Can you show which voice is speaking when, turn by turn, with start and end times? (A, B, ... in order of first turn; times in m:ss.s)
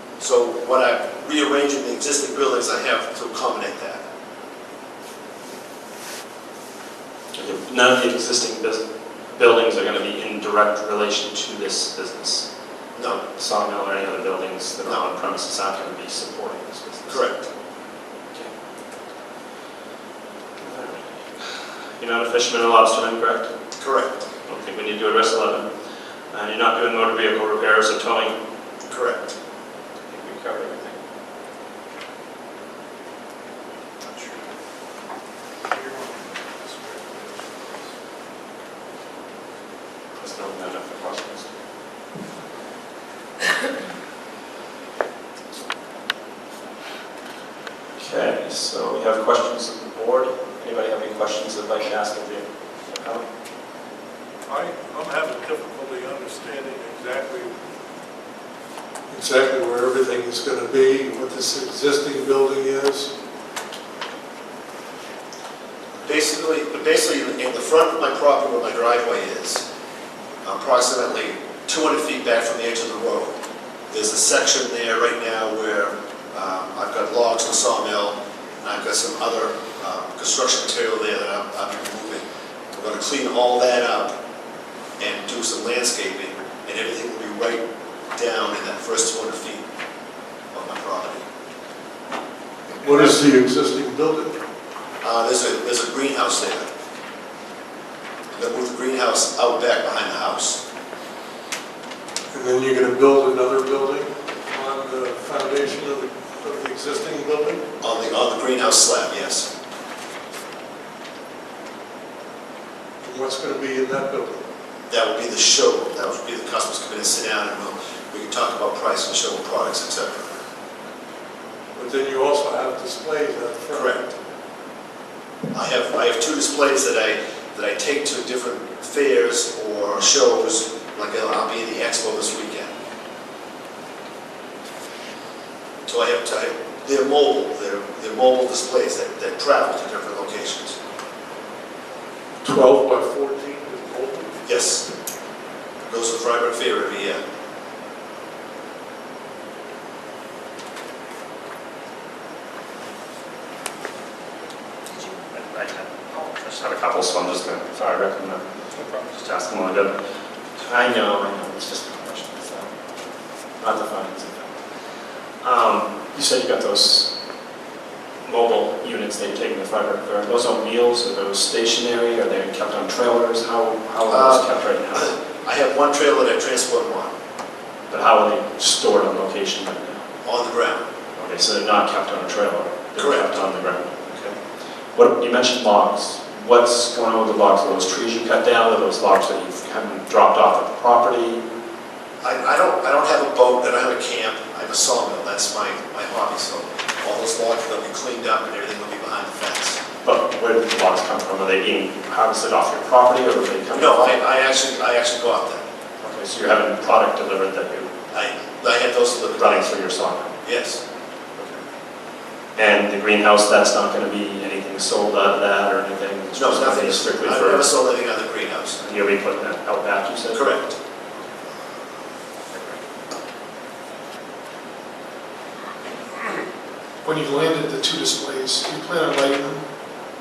0:00.2-0:04.0 A
0:07.3-0:12.4 B
0:12.9-0:13.2 A
0:13.1-0:17.3 B
0:17.1-0:17.4 A
0:20.6-0:23.5 B
0:23.8-0:24.2 A
0:24.5-0:25.7 B
0:26.3-0:28.4 B
0:28.9-0:29.3 A
0:30.1-0:31.0 B
0:35.7-0:37.4 C
0:40.2-0:41.5 B
0:48.0-0:53.2 B
0:54.5-0:57.6 C
0:59.1-1:03.1 C
1:06.0-1:09.6 A
1:10.4-1:13.3 A
1:13.9-1:24.1 A
1:25.0-1:27.6 A
1:28.1-1:29.6 A
1:30.5-1:31.2 A
1:32.8-1:34.4 C
1:35.0-1:36.6 A
1:38.3-1:40.6 A
1:42.3-1:47.6 C
1:47.8-1:49.5 A
1:53.0-1:54.4 C
1:54.9-2:00.4 A
2:01.7-2:03.9 C
2:03.7-2:04.1 A
2:05.5-2:12.7 A
2:15.8-2:20.8 A
2:22.4-2:24.4 C
2:24.4-2:24.8 A
2:25.8-2:27.2 A
2:35.3-2:38.4 B
2:38.7-2:39.1 D
2:39.1-2:39.9 B
2:40.6-2:42.7 B
2:43.6-2:44.5 B
2:45.4-2:47.1 B
2:48.2-2:55.1 B
2:54.1-2:57.1 A
2:57.9-3:00.0 B
3:00.2-3:00.8 A
3:01.2-3:04.4 B
3:03.0-3:03.4 A
3:04.9-3:11.4 B
3:12.2-3:19.8 A
3:20.0-3:24.2 B
3:23.7-3:25.6 A
3:26.0-3:27.9 B
3:28.1-3:29.7 A
3:29.4-3:30.3 B
3:30.4-3:30.8 A
3:32.6-3:37.7 B
3:36.3-3:38.8 A
3:38.8-3:40.4 B
3:40.3-3:40.8 A
3:47.0-3:49.6 D